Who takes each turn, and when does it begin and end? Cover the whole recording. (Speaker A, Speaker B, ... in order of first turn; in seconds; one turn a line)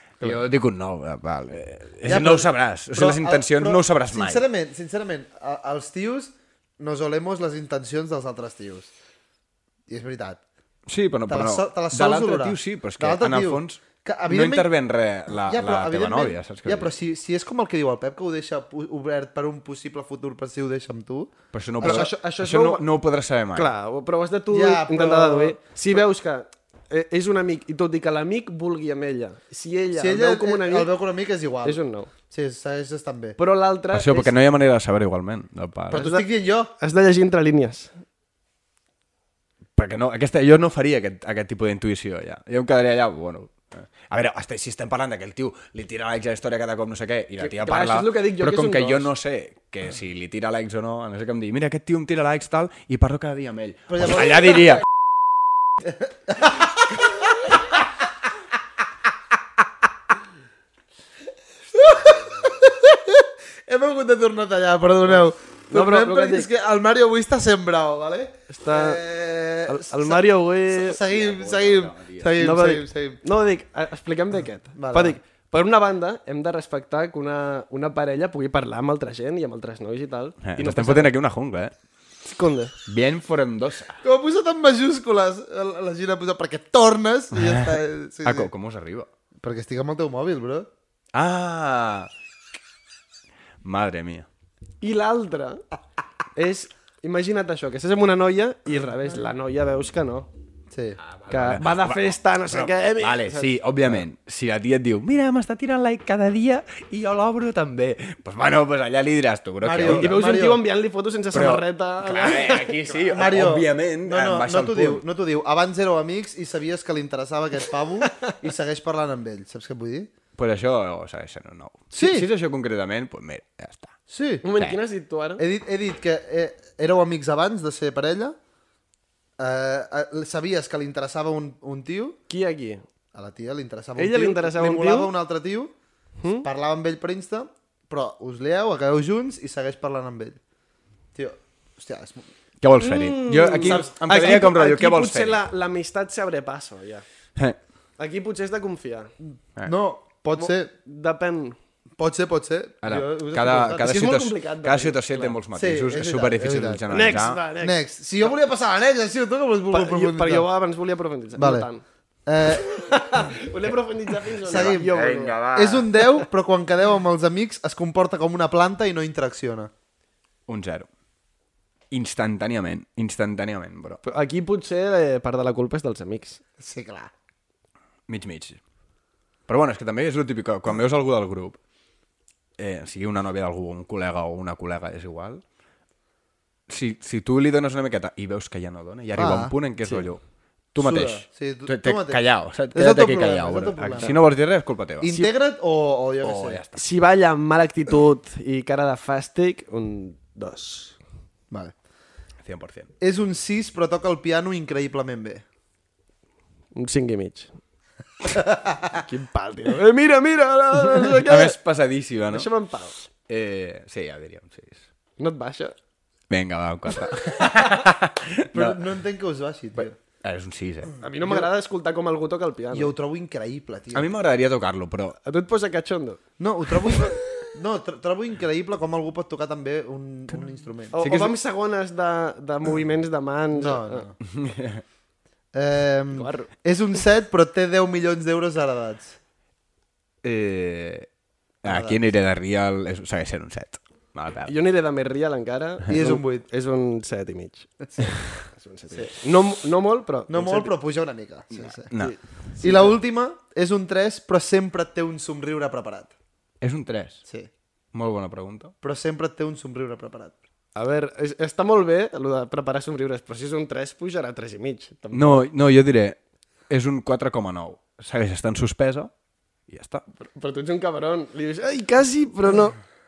Speaker A: 0.2-4.5
Speaker B: 2.0-8.9
Speaker B: 9.9-10.4
Speaker A: 10.9-17.0
Speaker B: 11.3-14.7
Speaker B: 15.5-22.1
Speaker A: 21.5-23.7
Speaker C: 21.8-22.9
Speaker C: 23.5-30.9
Speaker B: 24.5-25.6
Speaker B: 30.0-33.4
Speaker C: 31.6-32.1
Speaker C: 33.4-34.3
Speaker A: 33.9-36.1
Speaker B: 35.9-36.7
Speaker C: 35.9-36.3
Speaker C: 36.8-37.9
Speaker A: 39.8-54.8
Speaker C: 47.4-49.1
Speaker B: 53.9-54.7
Speaker B: 55.8-57.6
Speaker B: 61.7-73.2
Speaker C: 65.7-66.5
Speaker C: 68.5-69.0
Speaker C: 69.7-71.0
Speaker A: 71.0-72.3
Speaker C: 72.4-81.1
Speaker B: 74.8-75.2
Speaker A: 80.4-81.7
Speaker C: 82.2-82.7
Speaker A: 82.9-84.0
Speaker B: 84.0-88.5
Speaker A: 87.3-89.1
Speaker B: 89.4-90.7
Speaker A: 91.1-92.1
Speaker A: 93.6-94.3
Speaker C: 94.8-95.6
Speaker C: 96.3-100.3
Speaker B: 100.7-101.0
Speaker A: 101.0-110.2
Speaker C: 101.3-103.6
Speaker B: 109.6-110.6
Speaker C: 109.8-113.0
Speaker A: 111.3-115.0
Speaker B: 113.1-120.1
Speaker A: 120.4-124.0
Speaker B: 121.9-122.3
Speaker B: 124.1-124.4
Speaker C: 124.4-125.4
Speaker B: 125.4-128.4
Speaker B: 129.4-132.2
Speaker C: 132.3-132.8
Speaker B: 133.1-135.7
Speaker C: 134.0-135.1
Speaker C: 136.2-136.5
Speaker B: 136.4-140.4
Speaker B: 141.2-142.3
Speaker A: 142.6-145.4
Speaker C: 142.8-147.0
Speaker C: 148.0-149.1
Speaker B: 149.7-150.7
Speaker C: 150.3-151.6
Speaker B: 152.0-154.0
Speaker A: 152.8-157.4
Speaker C: 153.8-155.3
Speaker B: 155.5-160.5
Speaker C: 156.9-158.3
Speaker C: 159.7-161.8
Speaker B: 161.4-161.7
Speaker B: 162.3-162.7
Speaker C: 162.5-165.4
Speaker B: 164.4-164.9
Speaker A: 164.5-165.9
Speaker B: 165.5-169.7
Speaker A: 170.5-170.9
Speaker A: 171.9-174.0
Speaker C: 174.0-176.4
Speaker B: 176.6-177.1
Speaker A: 178.1-178.6
Speaker A: 179.5-181.6
Speaker A: 182.6-185.4
Speaker A: 186.7-190.2
Speaker B: 189.2-189.5
Speaker A: 190.7-195.3
Speaker B: 190.8-192.2
Speaker B: 192.7-194.2
Speaker B: 195.0-196.6
Speaker A: 196.2-196.8
Speaker C: 196.8-201.0
Speaker A: 202.4-202.9
Speaker B: 203.0-205.4
Speaker C: 206.7-207.5
Speaker B: 208.3-209.0
Speaker C: 209.0-211.6
Speaker A: 210.8-212.5
Speaker C: 212.3-212.9
Speaker A: 213.3-214.8
Speaker C: 215.2-215.8
Speaker A: 216.3-218.8
Speaker B: 218.5-220.0
Speaker A: 220.2-220.9
Speaker C: 221.0-222.9
Speaker B: 221.2-221.5
Speaker B: 222.7-224.1
Speaker A: 223.9-225.2
Speaker C: 225.2-226.2
Speaker B: 226.4-231.0
Speaker C: 230.9-234.1
Speaker A: 231.0-231.3
Speaker B: 233.6-234.2
Speaker A: 234.2-234.8
Speaker B: 235.5-239.2
Speaker C: 236.1-236.5
Speaker A: 240.2-241.1
Speaker B: 241.6-242.0
Speaker A: 241.6-244.5
Speaker C: 244.5-250.7
Speaker B: 245.9-246.4
Speaker B: 250.3-251.9
Speaker A: 251.5-252.2
Speaker C: 251.9-252.9
Speaker B: 252.6-256.1
Speaker A: 256.6-257.2
Speaker A: 257.9-258.7
Speaker B: 258.8-260.4
Speaker C: 260.8-265.5
Speaker A: 265.1-266.2
Speaker A: 266.7-269.1
Speaker A: 269.7-270.0
Speaker C: 270.2-272.8